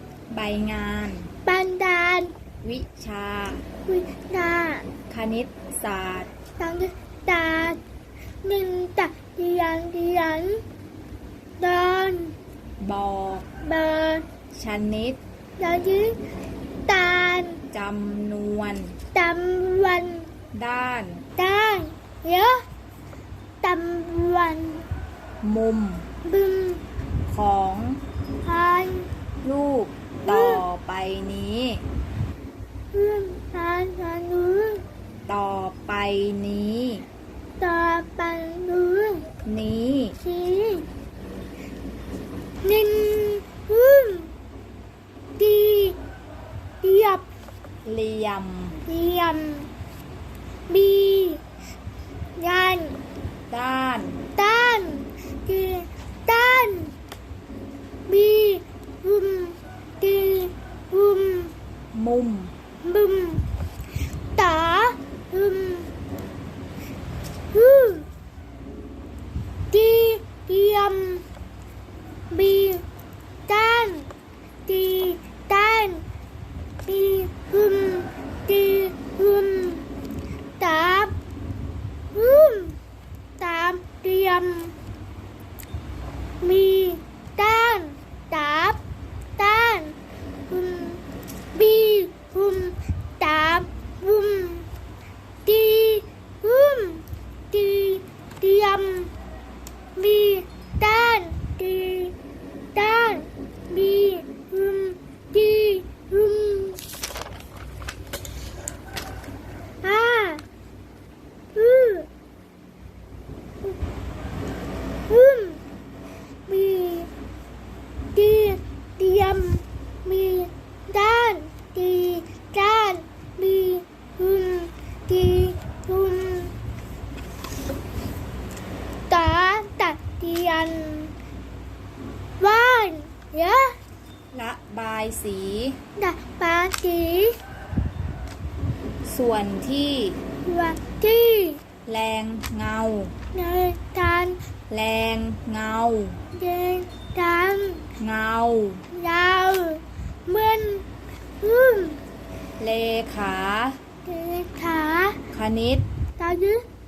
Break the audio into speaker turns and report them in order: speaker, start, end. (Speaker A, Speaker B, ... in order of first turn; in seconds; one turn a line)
Speaker A: 0.3-1.3
Speaker B: 1.4-2.3
Speaker A: 2.6-3.7
Speaker B: 3.9-4.9
Speaker A: 5.1-6.3
Speaker B: 6.6-7.8
Speaker B: 8.4-10.6
Speaker B: 11.6-12.3
Speaker A: 12.8-13.5
Speaker B: 13.6-14.2
Speaker A: 14.5-15.2
Speaker B: 15.6-16.2
Speaker B: 16.9-17.6
Speaker A: 17.7-18.9
Speaker B: 19.1-20.3
Speaker A: 20.5-21.2
Speaker B: 21.4-22.6
Speaker B: 23.6-24.8
Speaker A: 25.4-26.1
Speaker B: 26.2-26.8
Speaker A: 27.3-28.0
Speaker B: 28.4-29.1
Speaker A: 29.4-31.9
Speaker B: 30.3-30.6
Speaker B: 32.9-34.8
Speaker A: 35.3-37.0
Speaker B: 37.6-39.2
Speaker A: 39.4-40.2
Speaker B: 40.2-40.9
Speaker B: 42.6-44.3
Speaker B: 45.4-46.0
Speaker B: 46.8-47.2
Speaker A: 47.8-48.8
Speaker B: 48.9-49.7
Speaker B: 50.7-51.4
Speaker B: 52.4-53.0
Speaker A: 53.5-54.2
Speaker B: 54.3-56.9
Speaker B: 58.1-61.5
Speaker A: 61.9-62.5
Speaker B: 62.8-63.4
Speaker B: 64.3-65.9
Speaker B: 67.5-68.1
Speaker B: 69.7-71.2
Speaker B: 72.3-72.8
Speaker B: 73.5-74.1
Speaker B: 74.7-76.0
Speaker B: 76.8-79.9
Speaker B: 80.6-81.1
Speaker B: 82.1-82.8
Speaker B: 83.4-84.7
Speaker B: 86.4-88.8
Speaker B: 89.4-90.0
Speaker B: 90.5-91.0
Speaker B: 91.5-94.7
Speaker B: 95.4-99.1
Speaker B: 100.0-102.1
Speaker B: 102.7-106.8
Speaker B: 109.8-110.4
Speaker B: 111.5-112.1
Speaker B: 115.1-115.6
Speaker B: 116.5-117.1
Speaker B: 118.1-126.5
Speaker B: 129.1-131.1
Speaker B: 132.4-133.7
Speaker A: 134.3-135.8
Speaker B: 136.0-137.3
Speaker A: 139.1-140.2
Speaker B: 140.4-141.6
Speaker A: 141.8-143.1
Speaker B: 143.3-144.4
Speaker A: 144.7-146.2
Speaker B: 146.3-147.8
Speaker A: 148.0-148.8
Speaker B: 148.9-150.8
Speaker B: 151.4-152.0
Speaker A: 152.6-153.8
Speaker B: 154.0-155.2
Speaker A: 155.3-155.8
Speaker B: 156.2-156.6